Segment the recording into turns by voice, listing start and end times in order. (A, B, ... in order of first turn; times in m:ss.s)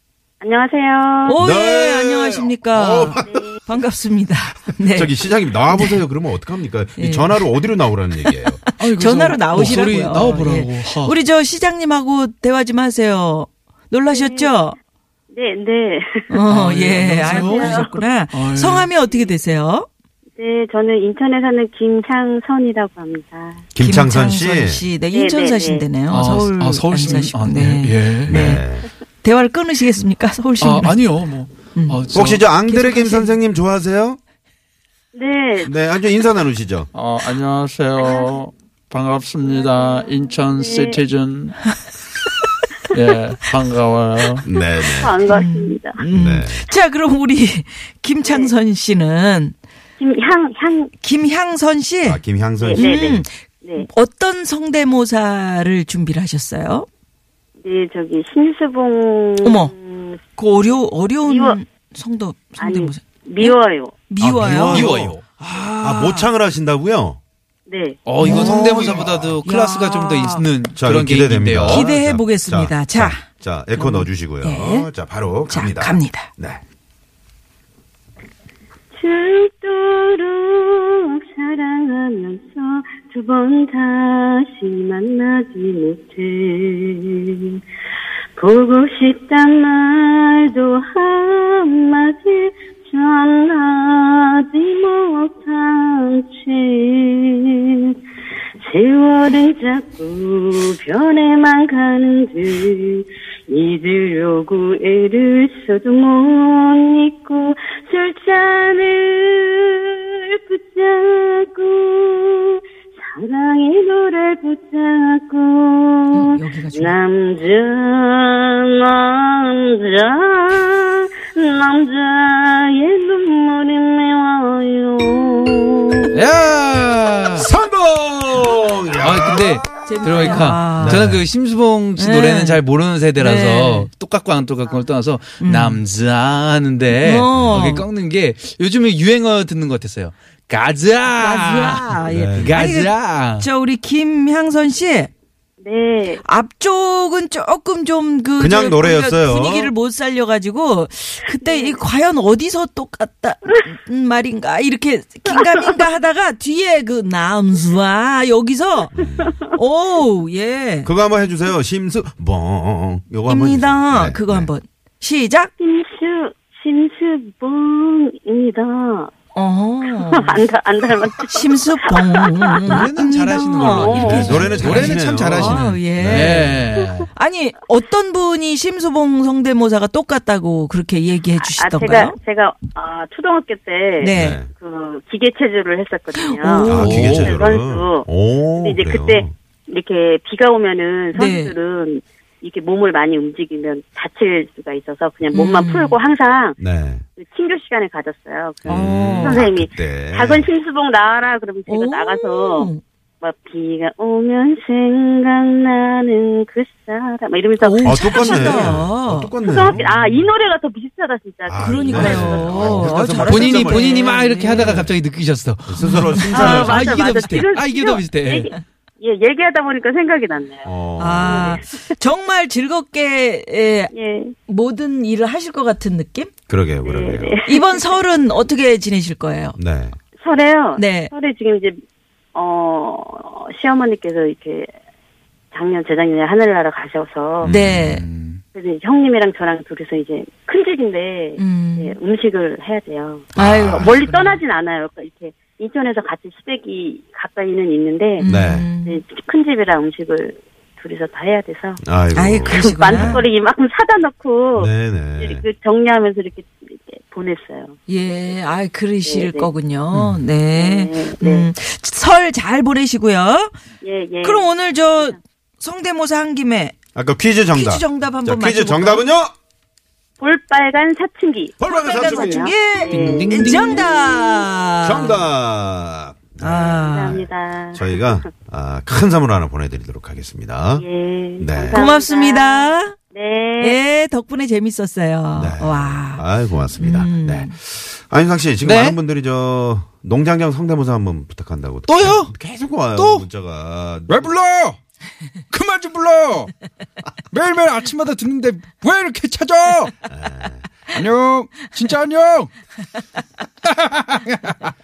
0:00.4-0:01.4 A
0:01.2-0:06.0 B
0:01.4-0:03.5 C
0:04.8-0:08.6 C
0:07.0-0:07.5 B
0:08.2-0:14.8 B
0:08.8-0:11.2 D
0:14.1-0:14.5 A
0:15.3-0:18.1 A
0:16.3-0:19.9 B
0:16.5-0:16.9 E
0:16.5-0:18.9 D
0:20.4-0:23.6 A
0:23.7-0:24.8 C
0:23.8-0:28.6 B
0:25.1-0:25.9 A
0:26.0-0:28.6 D
0:28.2-0:28.9 C
0:29.2-0:31.0 B
0:30.6-0:32.4 D
0:31.7-0:32.1 B
0:32.1-0:34.2 C
0:32.6-0:33.4 B
0:35.1-0:35.7 A
0:35.6-0:36.9 C
0:36.9-0:41.5 F
0:39.6-0:41.0 A
0:42.9-0:44.4 F
0:44.4-0:45.2 C
0:45.0-0:46.0 A
0:45.3-0:49.5 B
0:46.1-0:46.7 C
0:50.0-0:50.9 A
0:51.0-0:52.2 B
0:52.0-0:53.2 C
0:52.6-0:53.9 A
0:52.8-0:56.9 B
0:57.6-1:00.2 A
0:59.4-0:59.7 B
1:00.4-1:03.6 B
1:01.2-1:01.6 A
1:02.6-1:03.9 A
1:04.1-1:04.9 B
1:04.2-1:05.2 C
1:04.4-1:06.2 E
1:05.8-1:07.2 C
1:05.9-1:06.2 B
1:07.7-1:08.0 A
1:08.0-1:11.9 E
1:08.2-1:09.4 C
1:08.2-1:10.5 B
1:10.8-1:16.6 C
1:11.7-1:14.9 B
1:15.5-1:16.3 B
1:18.9-1:27.6 A
1:28.4-1:37.9 A
1:38.6-2:06.1 A
1:56.1-1:56.9 B
2:06.1-2:07.5 E
2:07.4-2:09.7 C
2:09.0-2:23.5 E
2:09.8-2:11.0 B
2:10.8-2:11.3 C
2:12.0-2:12.6 B
2:13.2-2:13.9 B
2:15.4-2:15.8 B
2:16.9-2:17.9 B
2:17.3-2:17.7 C
2:21.2-2:25.1 B
2:22.0-2:22.7 C
2:25.6-2:26.2 A
2:26.2-2:39.0 B
2:28.4-2:29.7 C
2:31.4-2:31.7 A
2:38.9-2:39.4 C
2:39.5-2:40.9 B
2:40.8-2:44.5 C
2:43.2-2:45.5 B
2:45.6-2:49.1 A
2:49.3-2:50.4 B
2:50.0-2:54.9 A
2:51.3-2:56.6 B
2:52.6-2:57.1 E
2:53.9-2:56.7 C
2:57.1-3:02.2 B
3:01.4-3:16.6 A
3:04.0-3:04.4 B
3:04.1-3:04.5 C
3:06.1-3:07.2 B
3:06.7-3:07.4 E
3:06.7-3:09.3 C
3:11.1-3:11.5 B
3:15.3-3:16.0 B
3:16.6-3:17.0 C
3:17.2-3:22.7 A
3:18.6-3:20.5 C
3:18.7-3:19.5 B
3:21.7-3:22.8 B
3:23.2-3:28.8 A
3:27.6-3:29.3 B
3:27.8-3:30.1 C
3:29.4-3:32.9 A
3:31.5-3:34.9 C
3:31.6-3:34.8 B
3:33.2-3:38.5 E
3:35.6-3:36.9 C
3:35.8-3:36.8 B
3:36.3-3:41.7 A
3:40.6-3:41.6 C
3:41.0-3:43.9 B
3:43.9-3:44.3 A
3:44.5-3:46.3 B
3:46.5-3:47.4 C
3:46.8-3:47.8 A
3:47.4-3:49.6 B
3:49.6-3:50.0 C
3:50.2-3:51.8 A
3:50.8-3:51.1 B
3:52.3-3:54.7 A
3:55.5-3:57.5 A
3:57.4-3:57.8 C
3:57.4-3:58.0 B
3:57.5-3:58.4 E
3:58.5-4:08.2 A
4:01.4-4:02.0 B
4:03.4-4:04.0 C
4:03.4-4:04.4 B
4:08.2-4:09.0 B
4:08.2-4:08.7 C
4:08.8-4:11.8 A
4:11.8-4:13.2 C
4:12.1-4:13.3 B
4:12.5-4:17.7 A
4:14.6-4:15.4 C
4:17.9-4:23.6 B
4:19.0-4:19.5 A
4:19.9-4:20.2 E
4:20.5-4:21.5 A
4:23.8-4:24.5 A
4:24.2-4:26.8 B
4:26.9-4:29.3 C
4:27.5-4:29.1 B
4:30.2-4:33.8 A
4:31.6-4:32.6 C
4:31.6-4:35.2 B
4:32.9-4:33.9 E
4:34.8-4:40.8 C
4:36.4-4:37.2 B
4:36.7-4:37.9 A
4:40.8-4:43.8 A
4:41.4-4:41.8 C
4:41.7-4:43.0 B
4:43.6-4:47.5 B
4:45.3-4:54.3 C
4:48.6-4:49.0 E
4:51.9-4:52.3 E
4:52.9-4:53.3 E
4:54.1-4:54.8 E
4:55.5-4:56.5 E
4:57.3-4:59.9 E
5:00.1-5:00.6 C
5:00.9-5:02.5 E
5:03.6-5:04.7 E